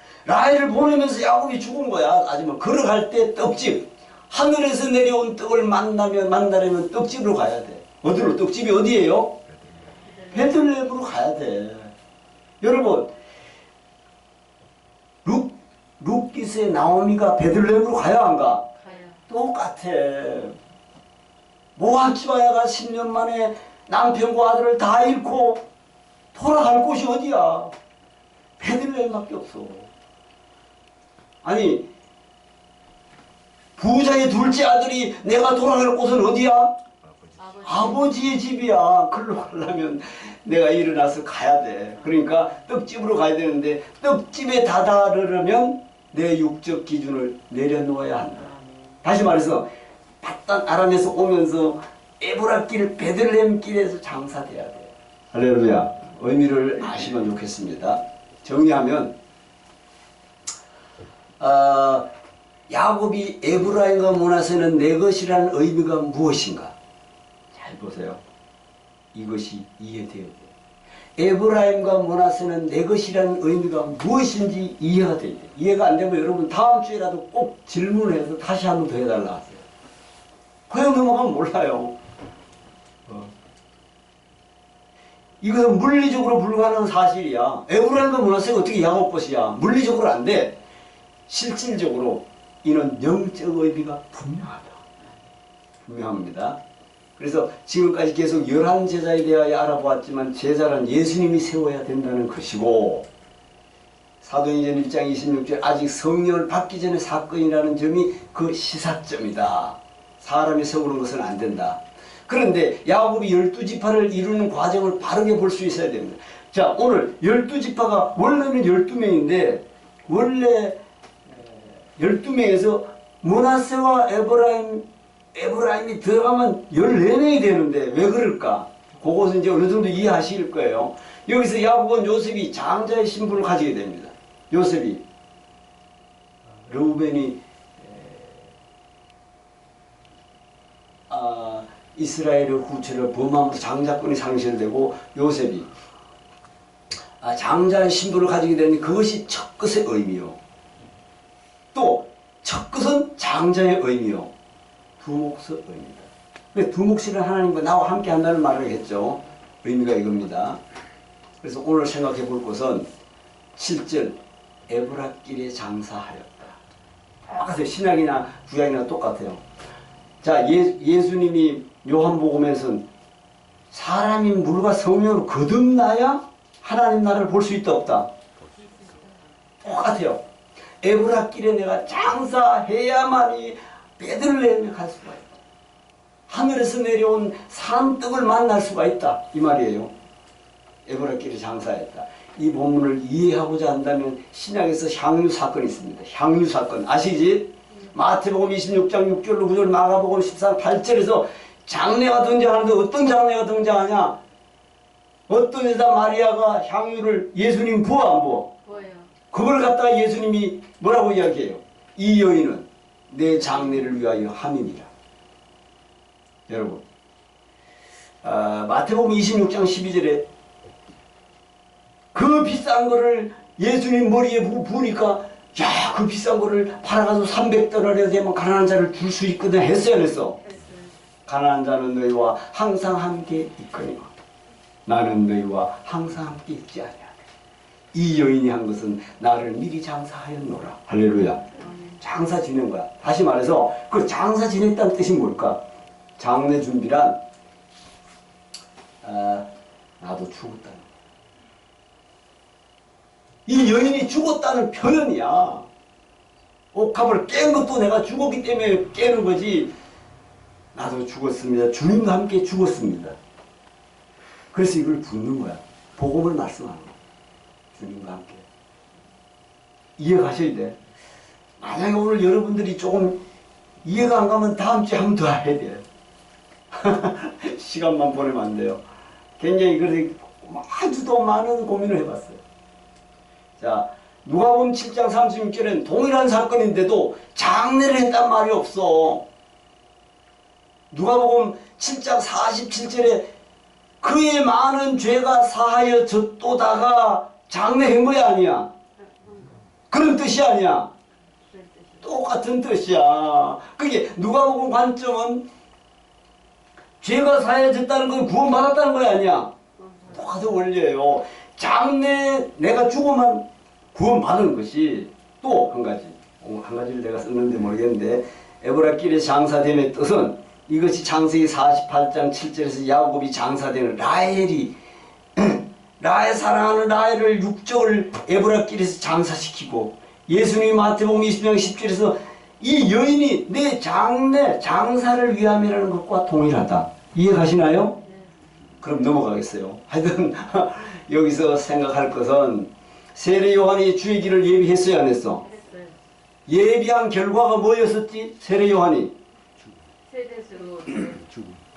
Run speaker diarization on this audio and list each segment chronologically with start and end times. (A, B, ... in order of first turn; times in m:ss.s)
0:00.2-0:09.4 A
0:09.9-0:10.6 B
0:10.3-0:11.9 A
0:12.6-0:13.1 A
0:15.2-0:18.7 A
0:18.8-0:19.2 B
0:19.3-0:20.6 A
0:21.8-0:25.6 A
0:26.3-0:27.7 A
0:28.6-0:29.9 A
0:31.4-0:31.9 A
0:33.8-0:36.8 A
0:37.3-0:38.4 B
0:37.6-0:49.7 A
0:50.2-0:59.1 A
1:01.4-1:02.1 A
1:02.7-1:06.7 A
1:07.5-1:08.2 A
1:09.1-1:10.5 A
1:11.2-1:19.6 A
1:20.7-1:22.0 A
1:25.4-1:30.6 A
1:31.3-1:34.8 A
1:35.8-1:36.6 A
1:37.2-1:43.1 A
1:44.2-2:00.8 A
2:01.3-2:15.0 A
2:16.6-2:18.4 A
2:21.1-2:25.7 A
2:27.2-2:30.4 A
2:31.7-2:34.3 A
2:35.0-2:40.6 A
2:41.4-2:42.9 A
2:43.6-2:44.2 A
2:44.7-2:46.6 A
2:47.3-2:49.4 A
2:50.2-2:52.8 A
2:53.7-2:58.1 A
2:58.5-2:59.1 B
2:59.6-3:00.2 A
3:00.8-3:05.3 A
3:06.3-3:09.9 A
3:10.8-3:24.2 A
3:25.3-3:28.5 A
3:28.6-3:29.1 B
3:29.3-3:34.9 A
3:36.5-3:36.8 A
3:38.2-3:40.2 A
3:42.1-3:50.4 A
3:50.4-3:50.9 B
3:51.3-3:54.1 A
3:54.8-3:57.2 A
3:57.9-4:01.4 A
4:01.6-4:02.0 B
4:02.0-4:05.6 A
4:06.2-4:07.2 A
4:09.0-4:09.5 A
4:10.0-4:10.9 A
4:13.4-4:15.7 A
4:16.7-4:19.7 A
4:20.7-4:23.2 A
4:24.5-4:27.0 A
4:27.7-4:28.4 A
4:30.0-4:30.8 A
4:31.6-4:33.2 A
4:33.8-4:35.8 A
4:36.7-4:38.8 A
4:39.4-4:42.4 A
4:43.6-4:49.2 A
4:50.9-4:53.2 A
4:54.0-4:58.7 A
4:59.0-4:59.6 B
4:59.9-5:00.9 A
5:01.4-5:02.1 B
5:02.0-5:05.4 A
5:07.0-5:09.5 A
5:09.8-5:10.5 B
5:10.1-5:24.7 A
5:25.4-5:38.0 A
5:38.8-5:45.4 A
5:45.4-5:46.0 B
5:46.5-5:49.1 A
5:50.0-5:51.3 B